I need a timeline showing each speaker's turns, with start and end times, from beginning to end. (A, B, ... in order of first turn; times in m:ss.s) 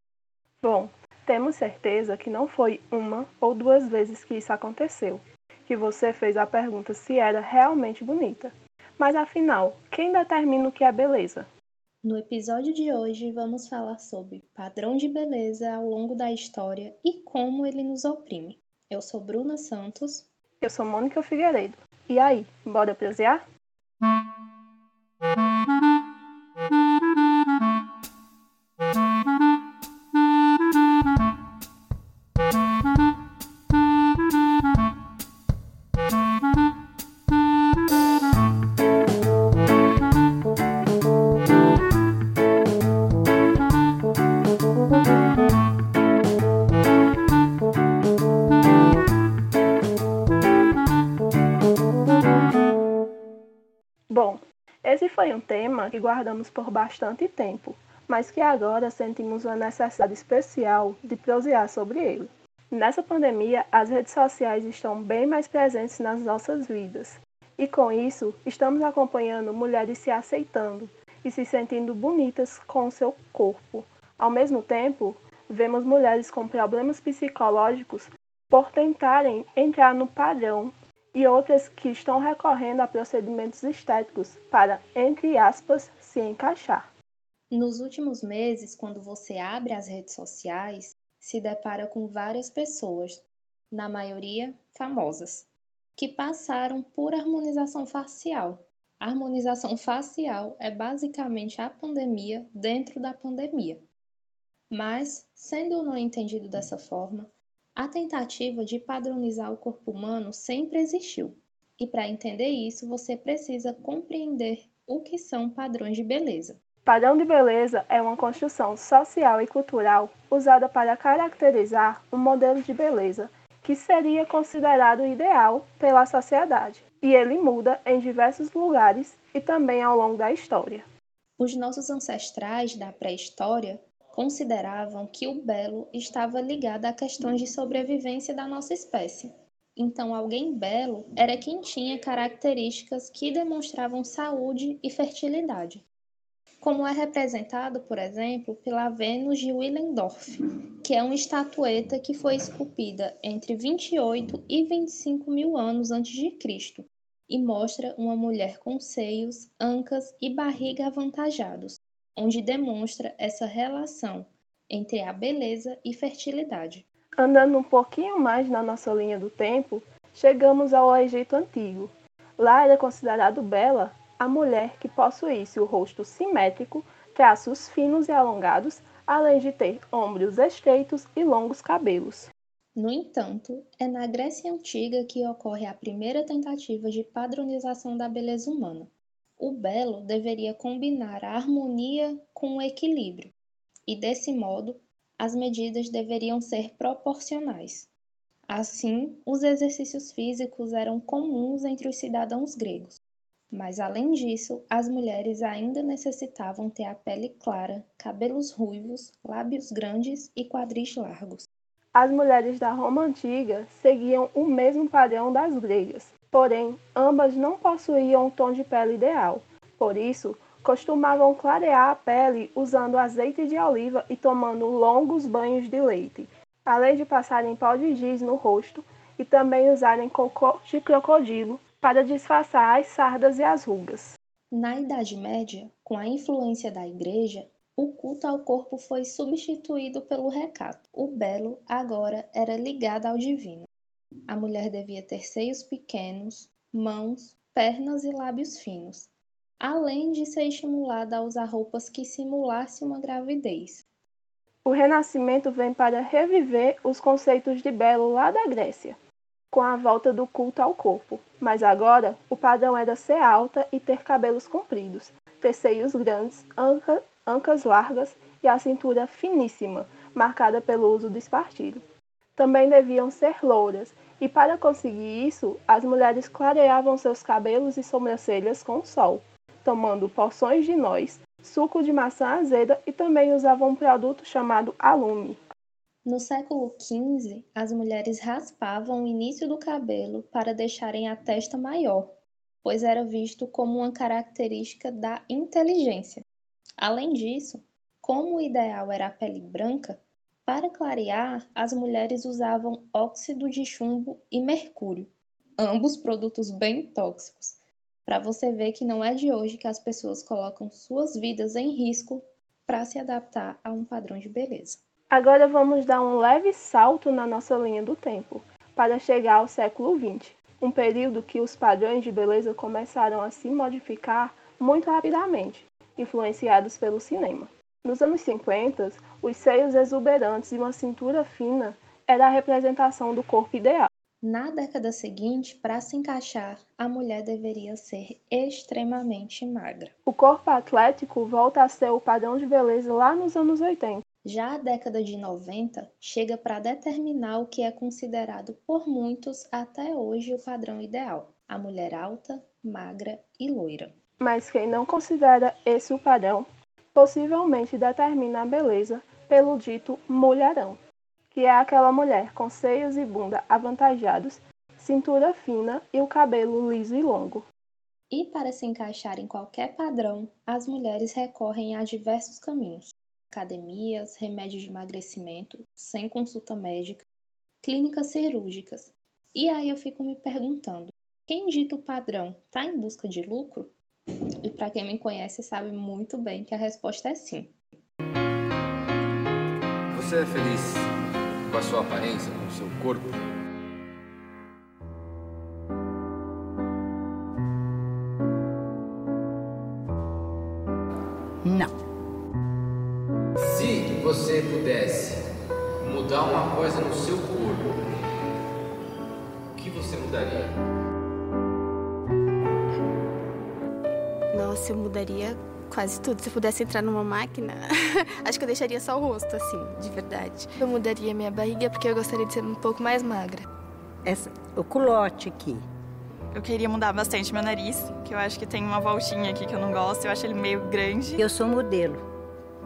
0:00.6-0:11.5 A
0:12.0-0:20.3 B
0:20.6-0:23.4 A
0:54.1-1:26.9 A
1:27.5-1:43.8 B
1:44.7-1:56.6 B
1:56.8-2:10.8 A
2:11.4-2:25.8 B
2:26.6-2:46.8 B
2:47.2-3:02.3 A
3:02.8-3:13.3 B
3:13.9-3:17.9 B
3:18.5-3:23.0 B
3:23.5-3:31.5 B
3:31.9-3:54.2 A
3:54.5-4:03.7 B
4:04.3-4:13.8 B
4:14.6-4:19.0 A
4:19.5-4:31.8 A
4:32.4-4:45.4 A
4:46.0-4:56.2 B
4:56.8-5:14.8 B
5:15.1-5:33.9 A
5:34.2-5:39.9 B
5:40.0-5:44.0 A
5:44.2-5:53.9 B
5:54.2-6:00.8 A
6:01.3-6:07.5 A
6:08.1-6:17.0 B
6:17.6-6:23.7 B
6:24.4-6:27.5 B
6:29.9-6:30.9 C
6:31.5-6:33.2 C
6:41.4-6:41.7 D
6:43.4-6:45.2 C
6:45.8-6:47.7 C
6:49.5-6:50.5 C
6:54.3-7:00.4 E
7:00.2-7:03.4 F
7:04.0-7:05.6 D
7:06.3-7:11.2 G
7:11.2-7:12.0 D